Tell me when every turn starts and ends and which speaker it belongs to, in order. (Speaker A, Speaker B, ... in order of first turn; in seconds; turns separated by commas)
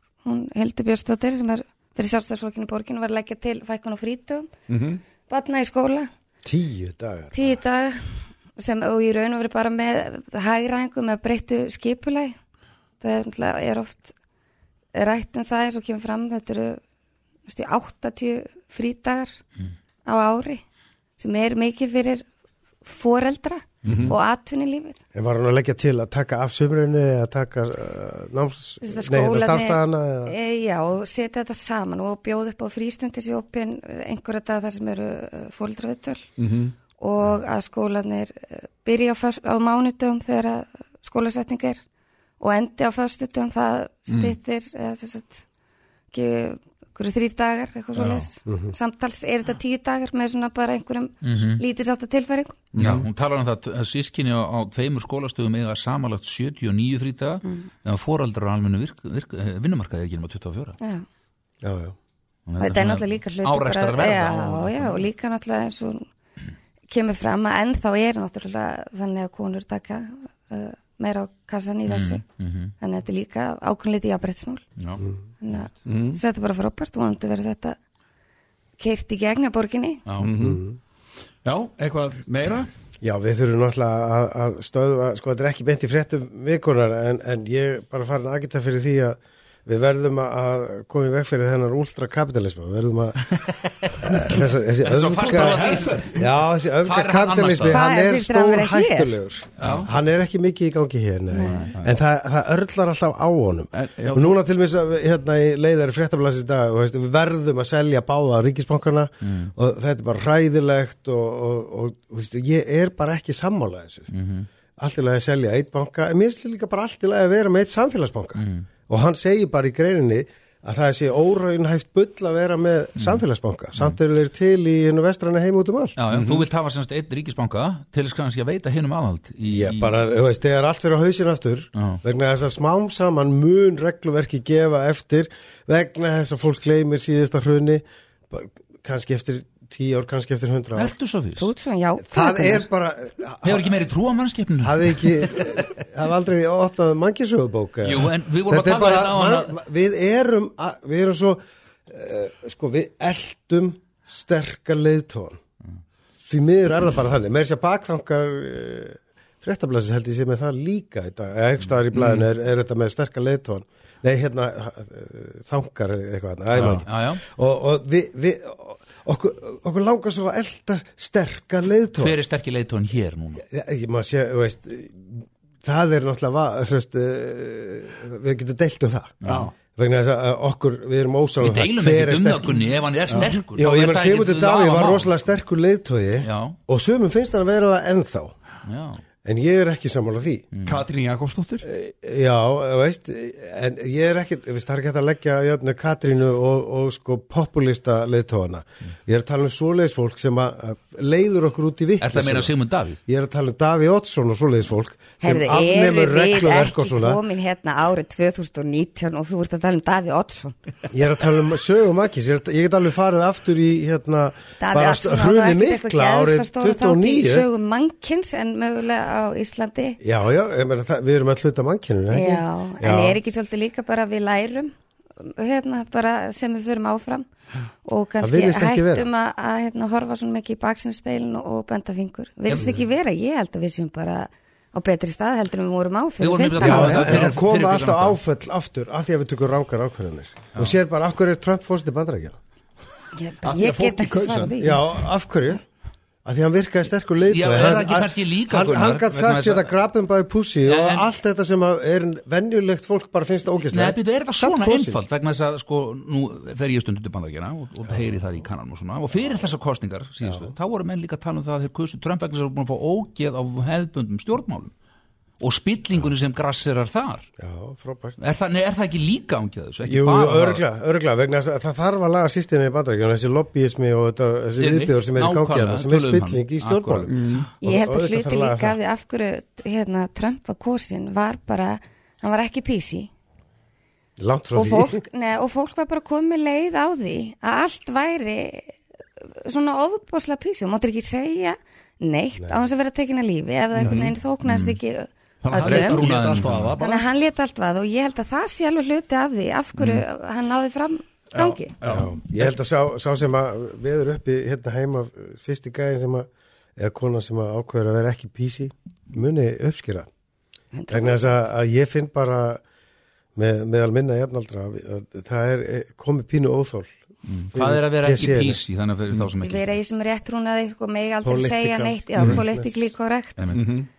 Speaker A: 0.2-4.5, Speaker B: 4.7-5.0, Speaker A: 5.3-6.1, Speaker C: 6.4-7.4, Speaker A: 7.3-12.4, Speaker A: 13.0-14.2, Speaker A: 14.9-16.8, Speaker A: 17.5-19.4, Speaker A: 20.1-20.6, Speaker A: 21.2-22.3, Speaker A: 22.8-25.0, Speaker B: 23.9-24.1, Speaker C: 25.1-30.3, Speaker A: 28.8-36.3, Speaker B: 36.4-36.8, Speaker A: 37.0-41.8, Speaker A: 42.4-45.4, Speaker B: 44.1-44.4, Speaker A: 46.1-52.5, Speaker B: 48.0-48.3, Speaker C: 48.5-48.7, Speaker D: 51.2-51.6, Speaker B: 52.7-53.1, Speaker D: 52.8-60.8, Speaker A: 57.4-57.7, Speaker A: 60.8-61.1, Speaker C: 61.6-62.0, Speaker D: 62.5-65.1, Speaker A: 62.6-66.1, Speaker A: 66.9-72.2, Speaker D: 71.9-72.7, Speaker A: 72.8-74.6, Speaker A: 75.4-77.8, Speaker B: 75.9-76.2, Speaker A: 78.8-80.0, Speaker D: 80.1-80.3, Speaker B: 80.2-80.6, Speaker C: 80.3-80.8, Speaker B: 81.4-82.7, Speaker C: 83.0-93.4, Speaker C: 93.9-114.1, Speaker D: 94.8-96.3, Speaker B: 95.5-96.2, Speaker D: 96.8-97.8, Speaker A: 97.7-99.2, Speaker D: 99.6-99.9, Speaker B: 99.6-99.9, Speaker D: 101.4-101.7, Speaker B: 103.7-104.4, Speaker D: 109.2-109.5, Speaker D: 114.1-114.5, Speaker C: 114.8-126.0, Speaker D: 118.4-118.7, Speaker D: 126.0-129.9, Speaker B: 126.1-126.5, Speaker C: 129.5-140.9, Speaker D: 131.8-132.0, Speaker D: 140.8-141.5, Speaker A: 141.4-142.7, Speaker C: 142.1-143.7, Speaker D: 143.4-145.8, Speaker C: 144.6-155.4, Speaker D: 147.8-149.5, Speaker C: 156.2-172.2, Speaker B: 166.6-166.8, Speaker D: 166.7-167.2, Speaker D: 172.0-173.4, Speaker C: 173.5-179.1, Speaker D: 179.2-179.5, Speaker B: 179.2-179.5, Speaker C: 179.8-188.4, Speaker D: 181.4-185.1, Speaker B: 183.1-183.3, Speaker D: 186.2-186.6, Speaker D: 188.7-189.0, Speaker C: 189.2-190.5, Speaker D: 190.5-190.8, Speaker B: 190.7-191.7, Speaker C: 191.6-202.5, Speaker D: 202.0-203.0, Speaker C: 203.1-207.2, Speaker A: 205.2-210.6, Speaker C: 210.9-217.5, Speaker A: 214.6-220.0, Speaker C: 220.0-223.2, Speaker A: 222.1-227.3, Speaker A: 227.8-237.1, Speaker C: 228.2-229.1, Speaker D: 236.2-238.2, Speaker C: 236.6-242.4, Speaker B: 236.7-237.2, Speaker A: 243.2-244.8, Speaker B: 243.4-244.6, Speaker C: 244.6-245.6, Speaker C: 246.2-255.0, Speaker D: 247.3-249.7, Speaker D: 250.7-251.1, Speaker D: 253.6-264.7, Speaker D: 265.4-267.3, Speaker C: 267.4-268.2, Speaker D: 268.2-270.6, Speaker C: 269.9-278.8, Speaker D: 274.6-277.5, Speaker B: 277.1-277.5, Speaker A: 277.6-283.1, Speaker C: 284.2-285.0, Speaker A: 284.5-296.1, Speaker B: 293.8-294.1, Speaker D: 294.4-294.8, Speaker B: 295.4-297.1, Speaker D: 295.6-296.8, Speaker A: 296.8-301.7, Speaker B: 299.8-300.0, Speaker B: 301.3-302.2, Speaker C: 301.8-310.1, Speaker A: 310.8-311.2, Speaker C: 310.9-312.6, Speaker C: 313.4-316.9, Speaker D: 317.3-319.7, Speaker C: 317.5-318.6, Speaker A: 319.4-323.4, Speaker C: 321.2-322.9, Speaker D: 323.4-323.7, Speaker B: 323.5-323.9